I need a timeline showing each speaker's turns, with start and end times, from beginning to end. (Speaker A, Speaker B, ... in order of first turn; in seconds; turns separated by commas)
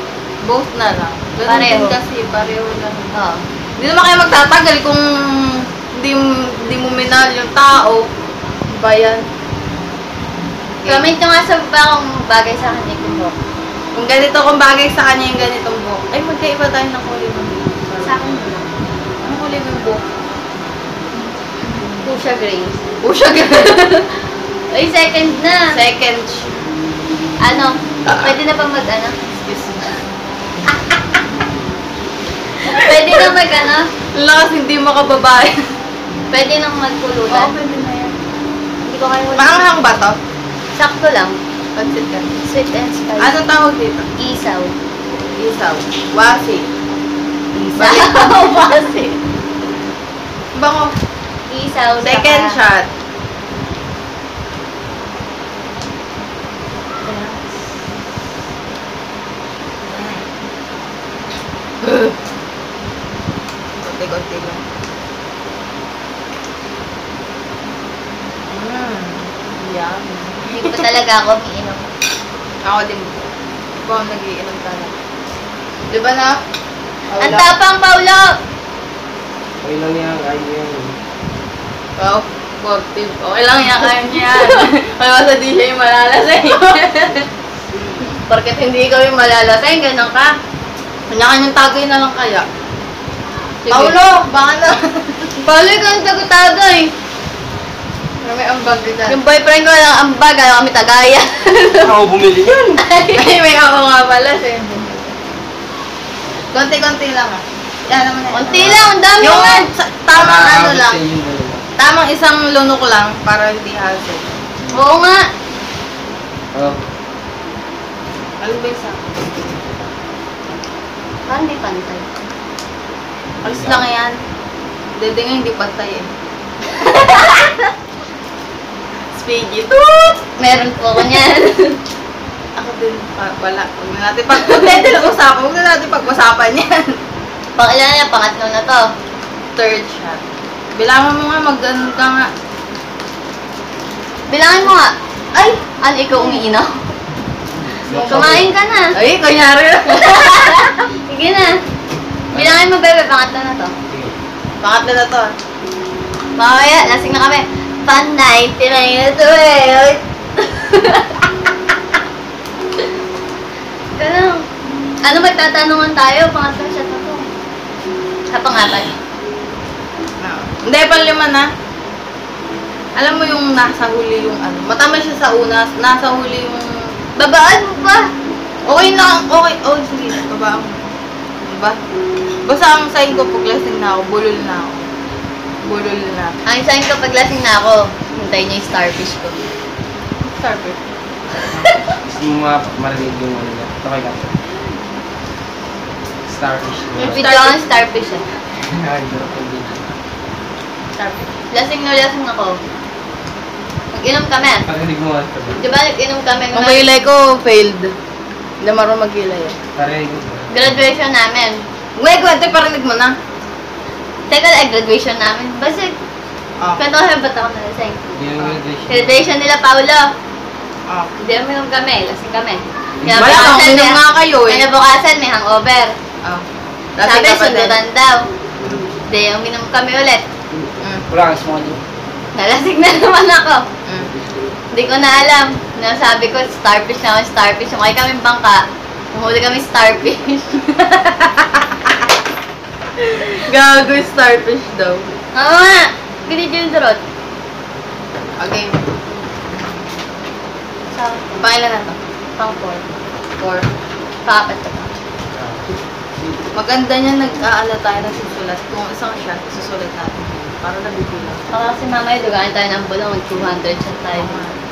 Speaker A: 0.4-3.1, Speaker B: 1.4-1.9, Speaker B: 3.1-3.4, Speaker A: 3.8-8.1, Speaker A: 8.7-9.3, Speaker A: 10.8-11.1, Speaker B: 10.8-13.3, Speaker A: 13.9-18.2, Speaker B: 18.0-18.6, Speaker A: 19.2-20.0, Speaker B: 22.0-22.8, Speaker A: 23.0-23.8, Speaker B: 23.4-23.9, Speaker B: 24.7-25.6, Speaker A: 25.7-26.5, Speaker B: 27.4-29.1, Speaker A: 29.3-30.0, Speaker B: 32.7-33.9, Speaker A: 32.7-33.3, Speaker A: 34.1-35.6, Speaker B: 36.3-37.5, Speaker A: 37.3-38.1, Speaker B: 38.8-39.9, Speaker A: 39.3-40.1, Speaker B: 40.7-41.4, Speaker A: 41.7-42.3, Speaker B: 42.4-43.4, Speaker A: 43.2-44.0, Speaker B: 44.2-44.7, Speaker A: 45.4-46.7, Speaker A: 47.7-48.4, Speaker B: 47.7-49.2, Speaker A: 50.5-50.9, Speaker B: 51.5-52.6, Speaker A: 52.0-52.9, Speaker A: 57.0-57.5, Speaker A: 59.8-60.2, Speaker A: 61.8-62.1, Speaker A: 63.8-64.6, Speaker A: 68.5-70.9, Speaker B: 70.5-71.9, Speaker A: 72.6-74.9, Speaker A: 75.9-76.4, Speaker A: 77.1-77.5, Speaker B: 77.2-78.3, Speaker C: 79.6-80.9, Speaker A: 82.0-87.3, Speaker B: 83.8-84.6, Speaker B: 88.3-90.3, Speaker A: 91.1-92.5, Speaker B: 93.7-94.0, Speaker A: 93.7-95.3, Speaker B: 95.4-96.9, Speaker A: 98.2-99.2, Speaker B: 99.0-101.9, Speaker C: 101.8-102.8, Speaker B: 102.8-103.3, Speaker A: 103.1-105.1, Speaker A: 106.5-111.0, Speaker B: 108.3-109.7, Speaker C: 108.5-108.9, Speaker C: 110.1-111.6, Speaker A: 111.8-114.3, Speaker B: 114.7-115.3, Speaker C: 116.5-116.8, Speaker A: 118.4-119.7, Speaker B: 121.3-122.0, Speaker C: 123.4-123.8, Speaker A: 123.4-124.1, Speaker A: 125.0-126.1, Speaker B: 126.8-127.5, Speaker A: 129.1-130.2, Speaker B: 130.4-131.8, Speaker A: 132.5-137.0, Speaker B: 137.6-138.8, Speaker A: 139.6-140.2, Speaker A: 140.7-142.3, Speaker B: 144.3-146.8, Speaker C: 147.7-148.5, Speaker B: 147.9-148.9, Speaker A: 148.9-150.6, Speaker B: 149.9-151.6, Speaker B: 152.3-153.7, Speaker C: 152.3-152.7, Speaker C: 153.9-154.1, Speaker A: 154.6-155.3, Speaker B: 156.4-161.1, Speaker B: 164.0-164.4, Speaker B: 165.0-167.2, Speaker B: 168.3-168.9, Speaker A: 170.2-171.5, Speaker A: 172.9-176.7, Speaker B: 177.2-178.1, Speaker A: 178.6-180.8, Speaker A: 181.4-181.8, Speaker A: 182.4-184.8, Speaker A: 185.6-186.3, Speaker B: 186.4-189.5, Speaker A: 190.2-190.8, Speaker B: 191.5-191.8, Speaker C: 191.6-194.3, Speaker C: 196.3-197.3, Speaker B: 197.0-198.2, Speaker A: 197.1-197.6, Speaker C: 198.7-199.8, Speaker A: 200.9-201.3, Speaker B: 201.5-202.6, Speaker B: 203.9-204.6, Speaker C: 204.7-205.6, Speaker B: 205.6-206.9, Speaker A: 206.5-207.9, Speaker A: 208.6-209.6, Speaker C: 209.8-210.5, Speaker B: 210.5-211.6, Speaker A: 211.9-213.1, Speaker B: 214.3-215.9, Speaker B: 216.8-218.0, Speaker C: 218.1-219.2, Speaker B: 218.9-220.0, Speaker B: 221.2-225.9, Speaker A: 223.1-224.7, Speaker A: 227.0-227.8, Speaker B: 227.0-228.2, Speaker B: 229.1-230.2, Speaker C: 231.1-231.8, Speaker B: 232.3-233.6, Speaker A: 233.8-234.1, Speaker B: 234.7-240.5, Speaker A: 240.8-241.6, Speaker A: 243.0-245.0, Speaker B: 245.3-247.0, Speaker A: 248.4-248.8, Speaker A: 251.0-252.0, Speaker B: 252.4-252.8, Speaker A: 253.4-253.7, Speaker B: 254.2-254.9, Speaker C: 255.3-255.6, Speaker A: 256.5-261.4, Speaker B: 261.5-264.4, Speaker A: 264.1-264.5